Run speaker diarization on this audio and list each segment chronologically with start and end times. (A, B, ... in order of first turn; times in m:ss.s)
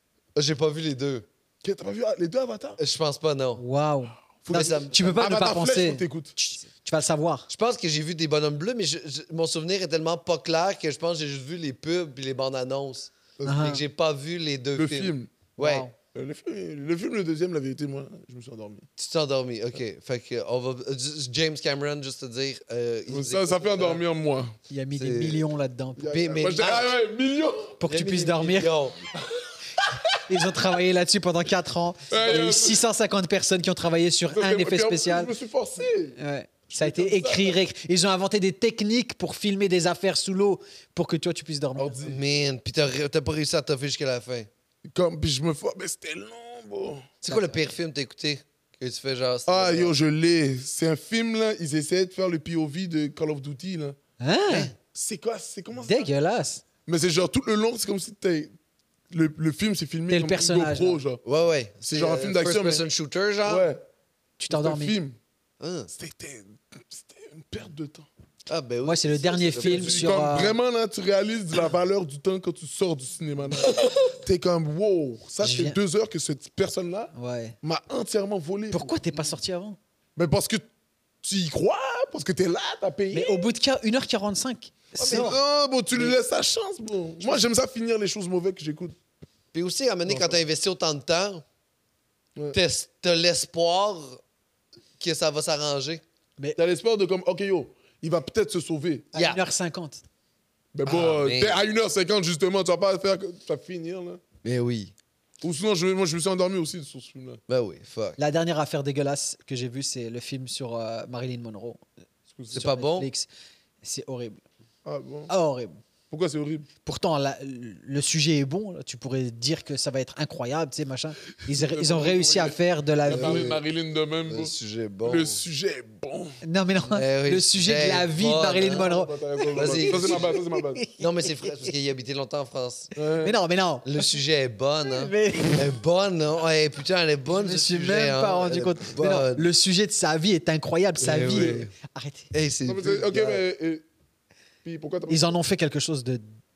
0:00.4-0:01.3 A
0:01.6-0:02.8 B
0:02.8-0:03.6 A
0:03.6-0:07.5 C
0:04.4-0:06.3 B
0:04.5-0:05.2 A
0:07.5-0:15.9 A
0:13.4-0:13.8 C
0:14.8-0:15.3 B
0:15.6-0:15.9 C
0:16.1-0:18.9 B
0:19.0-0:24.0 A
0:23.1-0:24.6 B
0:24.7-0:26.1 C
0:24.9-0:25.4 A
0:26.0-0:27.8 B
0:26.1-0:26.9 A
0:27.8-0:28.7 C
0:27.8-0:29.0 A
0:29.3-0:30.2 B
0:30.2-0:35.3 C
0:32.1-0:32.8 B
0:34.3-0:36.2 B
0:36.2-0:42.0 C
0:36.7-0:37.6 B
0:41.8-0:42.2 B
0:42.0-0:44.5 A
0:44.8-0:47.1 B
0:47.2-0:49.9 A
0:47.3-0:47.6 C
0:49.5-0:54.0 B
0:54.2-0:54.7 C
0:54.5-0:54.7 A
0:54.9-0:56.1 B
0:55.8-0:56.6 C
0:56.9-0:58.5 B
0:59.1-1:01.2 B
1:00.1-1:01.0 C
1:01.2-1:03.7 A
1:01.8-1:02.8 B
1:03.5-1:03.8 B
1:04.4-1:05.0 C
1:04.5-1:05.2 B
1:05.6-1:05.9 A
1:05.9-1:08.1 B
1:08.5-1:10.1 A
1:08.8-1:10.6 C
1:09.6-1:19.0 B
1:13.6-1:14.2 A
1:15.4-1:15.8 C
1:17.1-1:17.6 C
1:18.7-1:19.8 C
1:20.2-1:20.7 B
1:21.2-1:23.5 B
1:23.1-1:25.4 C
1:25.0-1:29.0 B
1:29.5-1:31.4 A
1:30.1-1:30.4 B
1:32.5-1:34.2 A
1:35.0-1:36.0 A
1:36.6-1:39.1 B
1:39.1-1:39.4 A
1:39.1-1:40.0 C
1:40.7-1:44.2 B
1:40.9-1:41.6 A
1:44.4-1:44.9 A
1:45.4-1:47.4 B
1:47.5-1:48.2 A
1:48.2-1:51.8 C
1:52.4-1:52.6 B
1:52.5-1:53.3 C
1:52.5-1:53.1 A
1:53.8-1:54.4 C
1:54.8-1:55.3 B
1:55.3-1:55.8 C
1:56.1-1:56.7 B
1:56.8-2:03.5 C
2:01.5-2:06.4 B
2:03.1-2:03.6 A
2:04.3-2:05.4 A
2:06.4-2:11.7 C
2:06.9-2:09.0 A
2:08.6-2:10.8 B
2:09.5-2:10.3 A
2:11.0-2:12.9 A
2:13.0-2:13.4 B
2:13.2-2:14.0 C
2:13.8-2:19.4 A
2:14.8-2:15.7 C
2:17.3-2:22.3 C
2:21.0-2:21.7 A
2:22.3-2:23.4 A
2:22.6-2:23.8 B
2:24.6-2:25.4 B
2:25.1-2:26.2 C